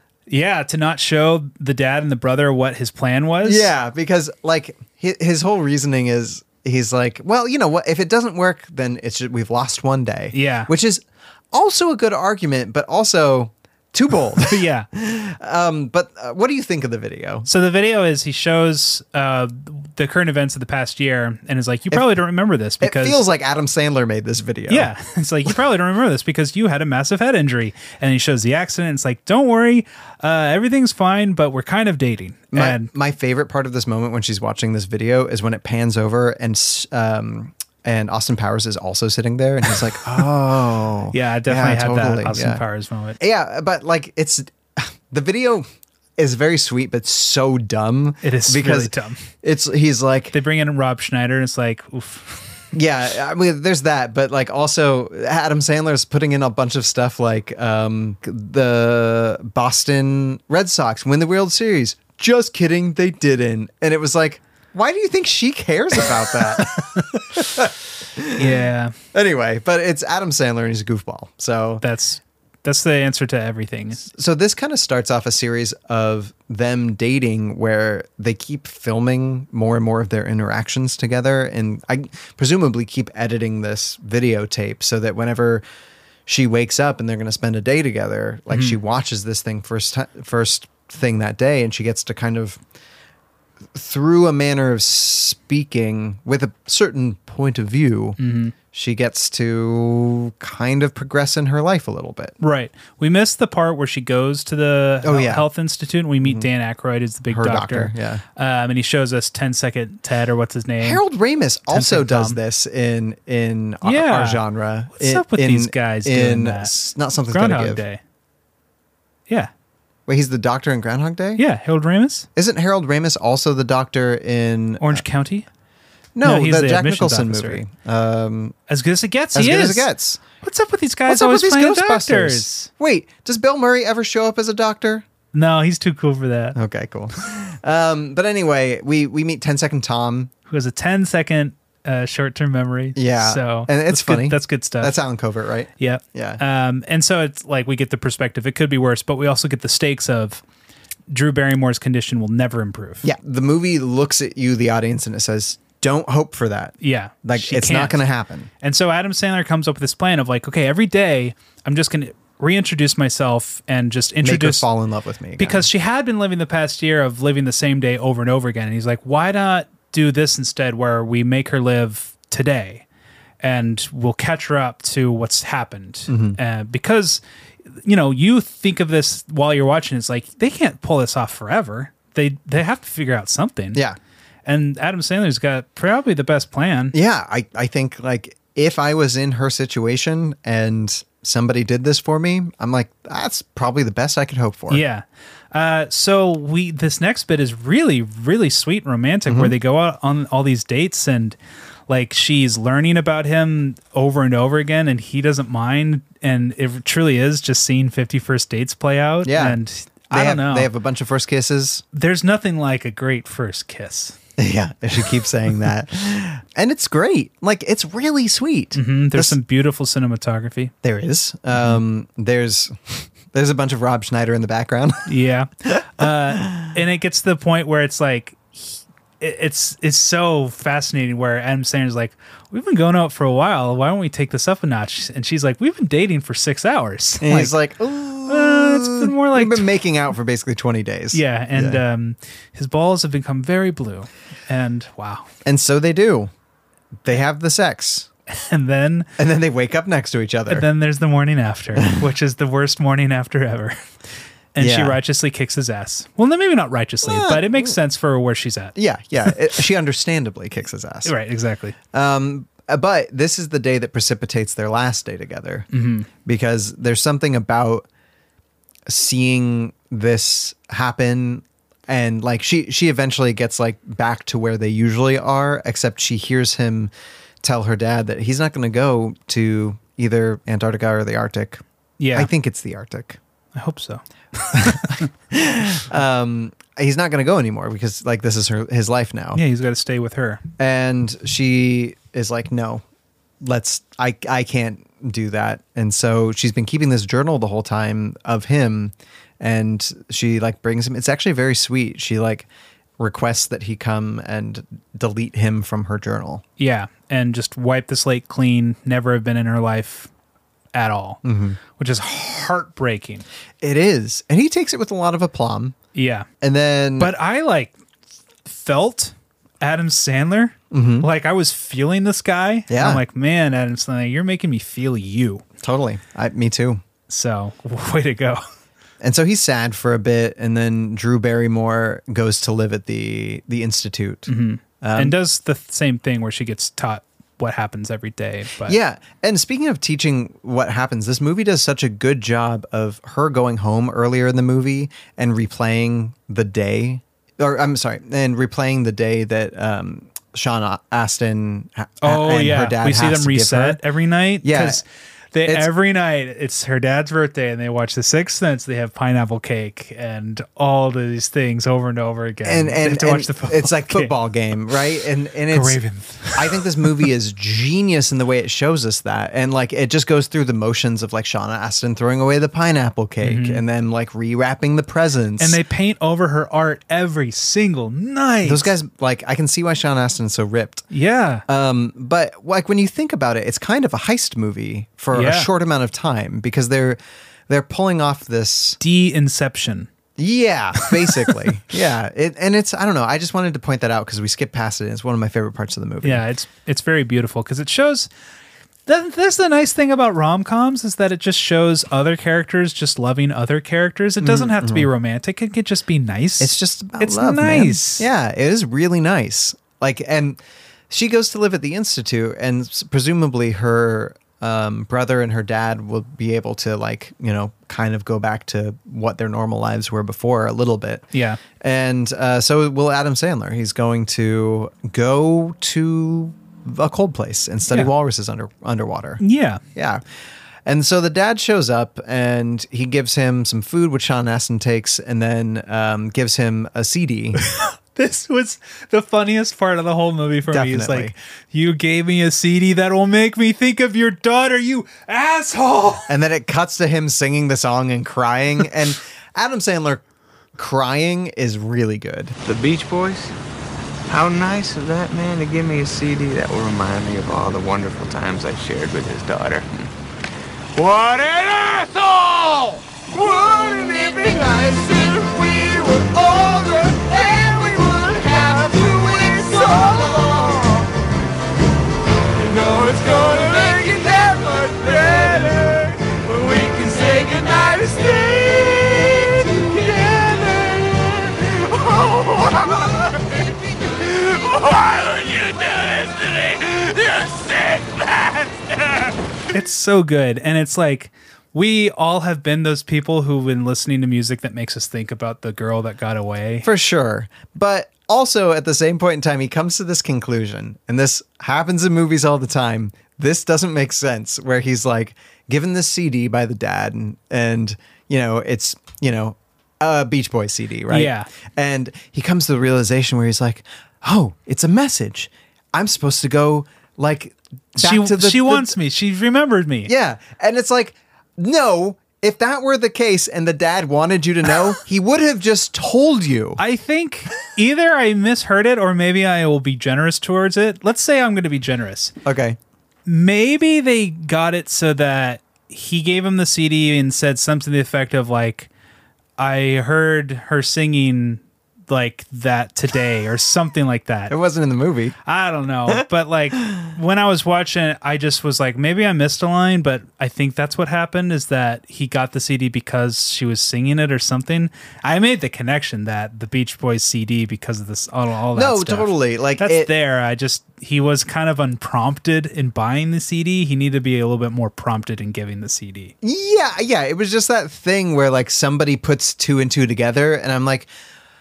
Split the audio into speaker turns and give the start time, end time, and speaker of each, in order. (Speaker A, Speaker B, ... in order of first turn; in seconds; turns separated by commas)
Speaker A: 0.3-3.7, Speaker B: 3.4-17.5, Speaker A: 10.3-10.7, Speaker A: 14.4-14.9, Speaker A: 17.5-23.2, Speaker B: 21.9-22.2, Speaker B: 22.8-24.9, Speaker A: 24.7-32.9, Speaker B: 32.5-42.6, Speaker A: 41.1-43.2, Speaker B: 43.2-45.7, Speaker B: 46.2-50.3, Speaker A: 48.2-49.3, Speaker A: 50.3-52.5, Speaker B: 52.7-68.5, Speaker A: 68.4-68.9, Speaker B: 69.1-71.8, Speaker A: 71.8-74.1, Speaker B: 74.1-85.6, Speaker B: 86.3-92.6, Speaker A: 88.5-88.8, Speaker B: 93.8-98.2, Speaker A: 98.2-98.5, Speaker B: 98.7-102.3, Speaker A: 102.4-111.0, Speaker B: 105.0-105.5, Speaker B: 106.2-106.5, Speaker B: 107.3-108.2, Speaker B: 110.8-117.8, Speaker A: 111.7-112.4, Speaker A: 113.8-114.4, Speaker A: 114.9-116.7, Speaker A: 117.3-118.0, Speaker B: 120.1-121.4, Speaker A: 121.4-122.3, Speaker B: 122.4-125.0, Speaker A: 124.8-125.5, Speaker B: 126.2-128.6, Speaker A: 126.2-127.6, Speaker A: 128.7-129.9, Speaker B: 129.3-130.2, Speaker A: 130.4-132.7, Speaker B: 131.1-135.1, Speaker A: 135.3-136.6, Speaker B: 136.6-140.3, Speaker A: 140.5-145.0, Speaker B: 143.0-146.4, Speaker A: 145.8-150.4, Speaker A: 151.1-153.1, Speaker B: 153.0-158.5, Speaker A: 156.8-158.0, Speaker A: 158.6-164.7, Speaker B: 164.2-165.7, Speaker A: 165.4-172.8, Speaker A: 173.4-177.2, Speaker B: 176.1-176.4, Speaker A: 177.8-183.8, Speaker A: 184.4-186.9, Speaker B: 186.9-194.8, Speaker A: 194.7-201.4, Speaker B: 199.3-199.5, Speaker A: 201.9-210.7, Speaker B: 209.2-209.6, Speaker B: 210.1-211.8, Speaker A: 211.9-214.2, Speaker B: 214.4-219.4, Speaker A: 218.8-220.7, Speaker B: 220.8-225.1, Speaker A: 221.5-221.8, Speaker A: 225.1-237.6, Speaker B: 225.7-226.7, Speaker B: 237.2-241.8, Speaker A: 238.3-239.7, Speaker A: 241.1-245.3, Speaker B: 245.4-246.3, Speaker B: 247.0-248.1, Speaker A: 248.3-249.1, Speaker B: 249.2-250.7, Speaker A: 250.5-253.8, Speaker A: 254.5-258.8, Speaker B: 254.6-255.0, Speaker B: 257.0-257.8, Speaker B: 258.8-261.1, Speaker A: 261.1-261.8, Speaker B: 261.9-265.7, Speaker A: 265.7-266.1, Speaker B: 266.2-267.9, Speaker B: 268.9-276.9, Speaker B: 277.4-283.2, Speaker A: 282.0-282.3, Speaker A: 283.6-285.1, Speaker B: 284.5-289.4, Speaker A: 289.4-290.4, Speaker B: 290.6-292.8, Speaker B: 293.4-302.5, Speaker B: 303.0-306.4, Speaker A: 306.6-310.1, Speaker A: 310.7-311.2, Speaker B: 311.2-311.6, Speaker A: 311.8-313.3, Speaker B: 313.6-315.8, Speaker A: 315.9-316.3, Speaker B: 316.4-317.1, Speaker A: 317.0-317.7, Speaker A: 318.5-325.4, Speaker B: 320.7-321.1, Speaker B: 322.7-323.0, Speaker B: 325.6-326.8, Speaker A: 327.1-328.4, Speaker B: 329.0-334.3, Speaker A: 334.3-338.8, Speaker B: 334.8-335.2, Speaker B: 338.6-353.8, Speaker A: 352.0-364.1, Speaker B: 354.4-354.8, Speaker B: 355.4-355.7, Speaker B: 362.4-365.8, Speaker A: 365.5-367.1, Speaker B: 366.3-375.6, Speaker A: 373.2-373.6, Speaker A: 375.4-378.7, Speaker B: 378.4-380.9, Speaker A: 380.9-381.4, Speaker B: 381.5-388.8, Speaker A: 385.1-385.5, Speaker A: 388.8-389.9, Speaker B: 390.2-396.2, Speaker A: 390.8-391.3, Speaker A: 396.0-398.1, Speaker A: 398.9-408.1, Speaker B: 404.2-404.9, Speaker B: 406.4-421.1, Speaker A: 421.1-421.4, Speaker B: 421.6-429.2, Speaker A: 429.2-429.6, Speaker B: 429.8-430.0, Speaker B: 430.7-437.4, Speaker A: 437.5-446.1, Speaker B: 440.5-441.1, Speaker B: 446.1-450.0, Speaker B: 450.6-452.4, Speaker C: 452.4-453.3, Speaker C: 454.1-459.9, Speaker C: 460.8-470.9, Speaker C: 472.4-489.1, Speaker A: 489.5-496.7, Speaker B: 496.6-518.8, Speaker A: 510.9-511.3, Speaker A: 517.8-519.9, Speaker B: 519.9-526.6, Speaker A: 526.6-532.1, Speaker B: 532.2-532.6, Speaker A: 533.1-538.7, Speaker A: 539.4-544.4, Speaker B: 544.3-545.2, Speaker A: 545.3-566.1, Speaker B: 558.5-559.9, Speaker B: 566.2-570.9